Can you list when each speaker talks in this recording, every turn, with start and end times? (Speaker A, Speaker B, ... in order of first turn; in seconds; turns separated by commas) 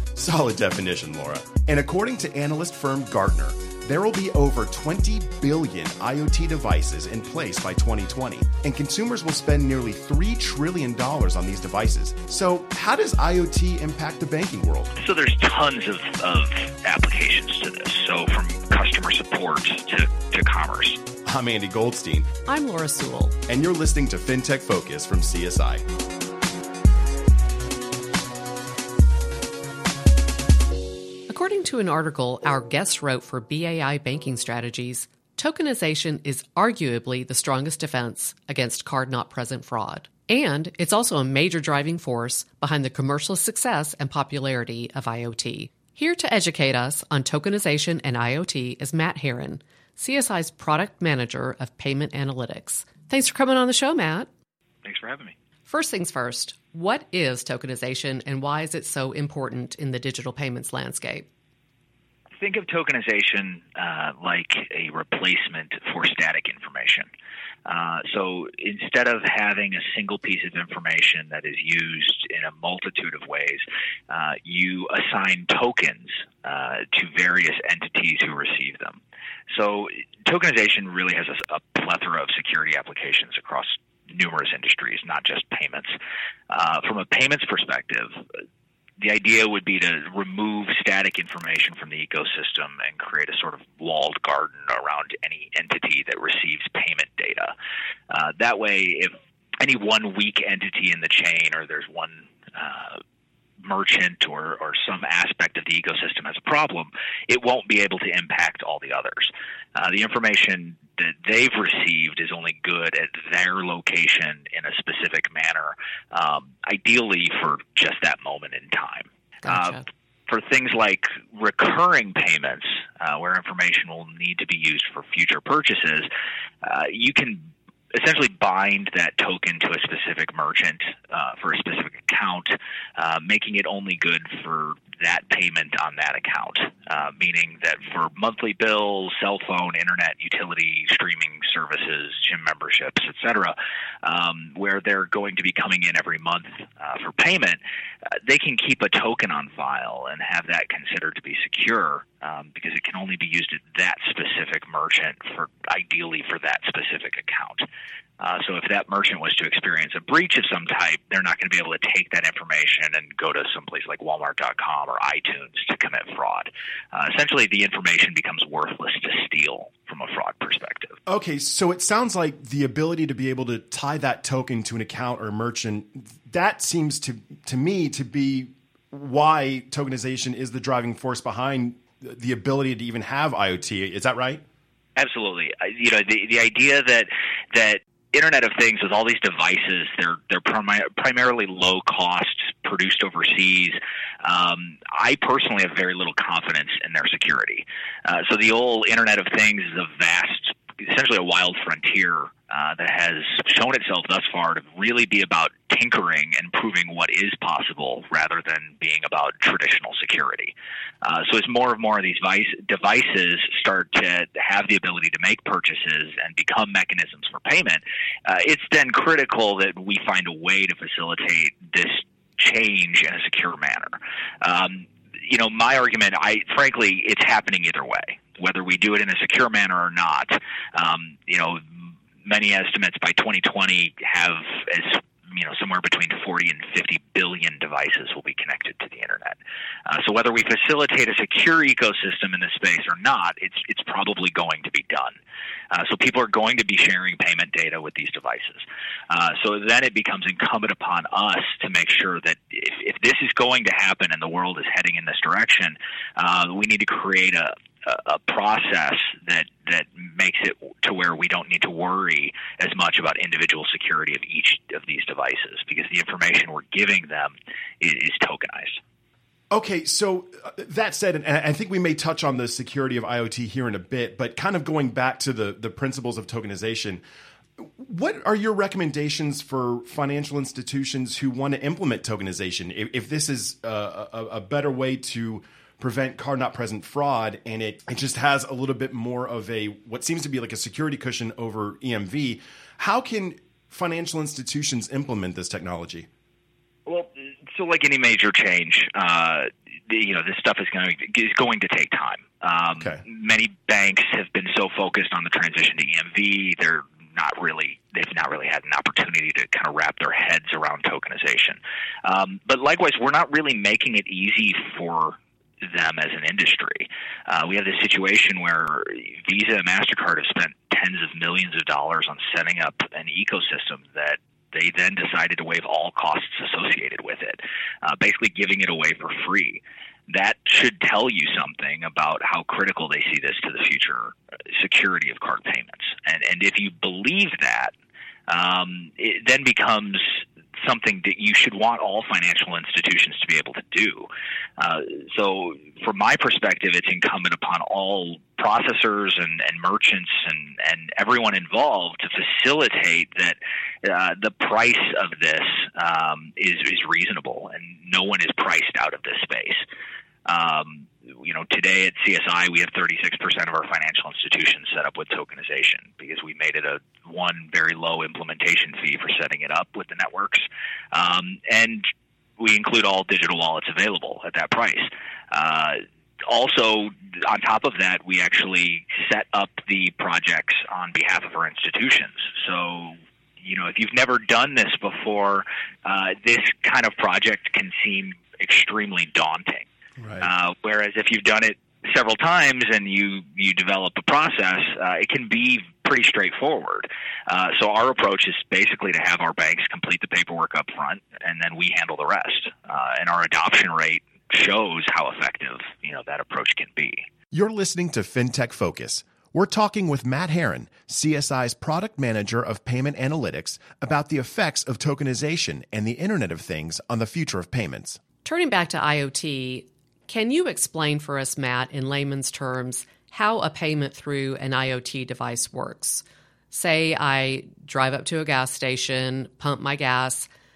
Speaker A: 0.1-14.9, Speaker B: 14.9-21.0, Speaker A: 21.2-22.3, Speaker C: 22.5-23.3, Speaker A: 23.5-25.8, Speaker C: 31.4-54.3, Speaker B: 54.8-55.3, Speaker C: 55.7-61.3, Speaker B: 62.4-67.1, Speaker B: 67.7-86.0, Speaker B: 86.5-88.2, Speaker B: 89.0-97.5, Speaker B: 98.1-103.0, Speaker B: 103.6-126.1, Speaker B: 126.6-147.6, Speaker B: 148.2-157.7, Speaker B: 158.2-171.0, Speaker A: 171.1-184.4, Speaker B: 184.9-245.2, Speaker B: 245.7-268.8, Speaker A: 269.5-277.0, Speaker A: 277.6-296.1, Speaker B: 296.9-337.7, Speaker B: 338.3-344.1, Speaker B: 344.6-359.6, Speaker B: 360.3-371.9, Speaker B: 372.4-389.7, Speaker A: 390.0-390.3, Speaker B: 390.2-407.0, Speaker A: 407.3-418.0, Speaker C: 418.2-430.3